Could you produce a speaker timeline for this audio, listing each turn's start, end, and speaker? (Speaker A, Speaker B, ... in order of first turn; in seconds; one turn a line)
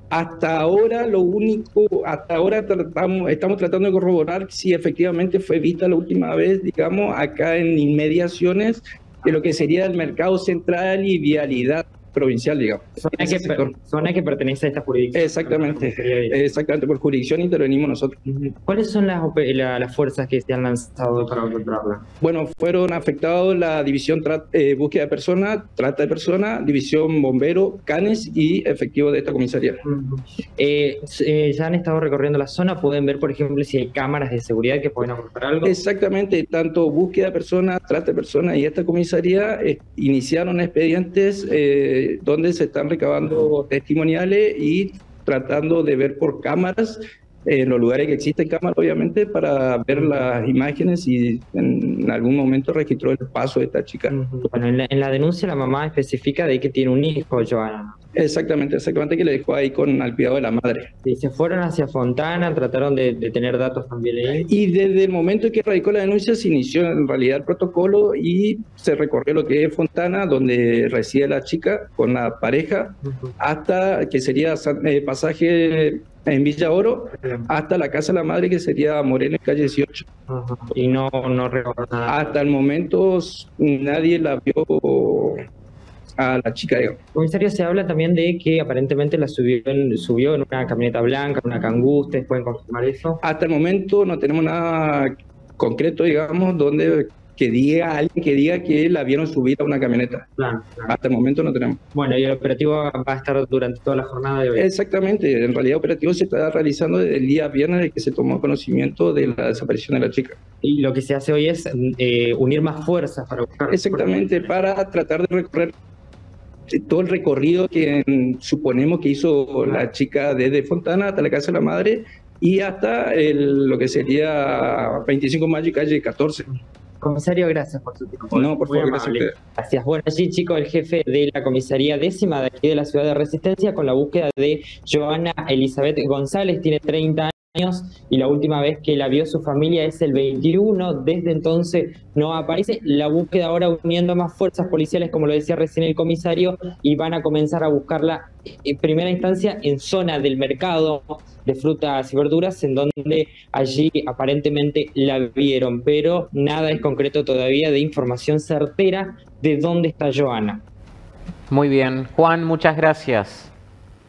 Speaker A: 0.1-13.7
Speaker B: 13.0-16.6
Speaker A: 15.1-18.2
Speaker B: 18.2-22.0
Speaker A: 22.2-29.8
Speaker B: 29.8-35.8
Speaker A: 35.6-54.1
Speaker B: 54.1-58.0
Speaker A: 58.1-60.9
Speaker B: 61.0-64.5
Speaker A: 64.5-80.0
Speaker B: 73.0-73.3
Speaker B: 80.3-82.4
Speaker A: 82.1-85.4
Speaker A: 86.2-87.0
Speaker B: 87.1-93.2
Speaker A: 93.2-100.3
Speaker B: 100.3-101.0
Speaker A: 100.9-101.8
Speaker B: 101.9-104.7
Speaker A: 104.5-110.4
Speaker B: 110.6-114.5
Speaker A: 113.7-115.7
Speaker A: 116.7-126.5
Speaker B: 126.5-160.6
Speaker A: 128.3-129.3
Speaker C: 161.5-163.5